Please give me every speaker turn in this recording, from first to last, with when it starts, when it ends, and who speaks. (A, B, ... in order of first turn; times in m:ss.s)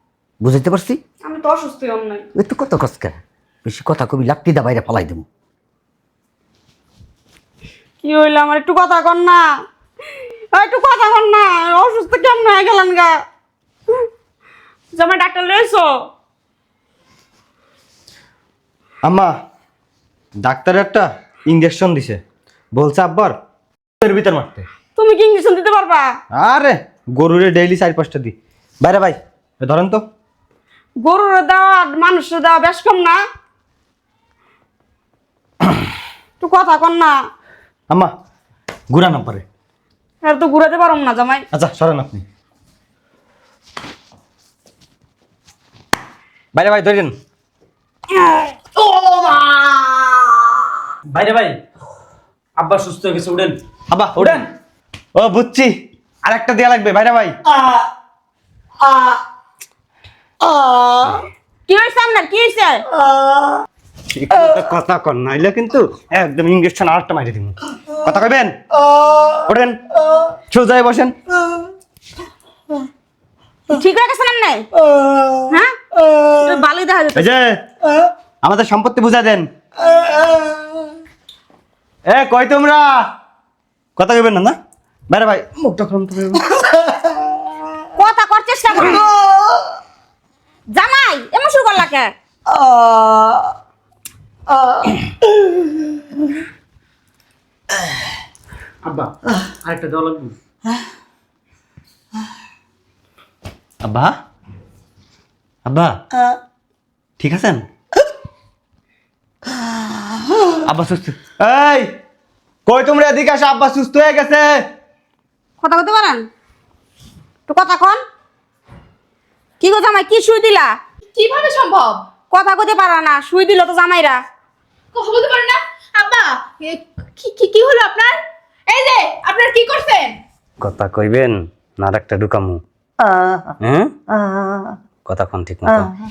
0:00.4-0:01.0 A
0:01.2-0:02.3 B
0:02.4-0:05.2 A
0:08.0-0:09.6 B
0:10.5-0:13.2 B
0:14.9-0:16.1 B
0:19.0-0:19.3 C
0:20.4-0:22.2 C
0:22.7-0:23.3 C
0:24.0-0:24.7 C
0:25.0-0:26.2 B
0:26.3-0:30.0 C
0:31.0-0:33.2 B
0:36.4-0:37.2 B
0:38.9-0:39.4 C
0:40.2-0:41.4 B
0:41.5-0:42.2 C
0:46.5-0:47.1 C
0:51.1-0:51.6 D
0:52.6-0:53.6 D
0:53.9-0:54.4 C
0:54.2-0:54.4 D
0:55.2-0:55.7 C
0:56.2-0:57.4 C
1:00.6-1:00.9 A
1:01.7-1:02.8 B
1:04.1-1:08.5 C
1:09.0-1:09.3 A
1:09.5-1:09.8 C
1:10.5-1:11.1 C
1:13.7-1:14.6 B
1:15.0-1:15.4 A
1:15.5-1:15.8 B
1:16.4-1:17.4 B
1:17.2-1:17.6 C
1:18.4-1:19.5 C
1:19.9-1:20.7 A
1:22.1-1:22.9 C
1:24.0-1:24.6 C
1:25.1-1:26.6 C
1:28.0-1:29.0 B
1:30.7-1:32.1 B
1:32.5-1:33.5 A
1:34.5-1:35.0 A
1:38.8-1:39.1 D
1:39.6-1:40.3 D
1:43.8-1:44.1 C
1:45.7-1:46.0 C
1:47.2-1:47.6 C
1:50.7-1:51.9 C
1:52.7-1:54.5 C
1:55.6-1:56.3 B
1:57.5-1:58.0 B
1:59.6-2:00.8 B
2:01.2-2:02.0 E
2:02.3-2:04.2 B
2:05.0-2:08.1 E
2:08.7-2:10.1 E
2:10.6-2:12.6 C
2:13.0-2:13.5 A
2:13.6-2:13.9 C
2:14.1-2:14.8 A
2:15.0-2:15.9 C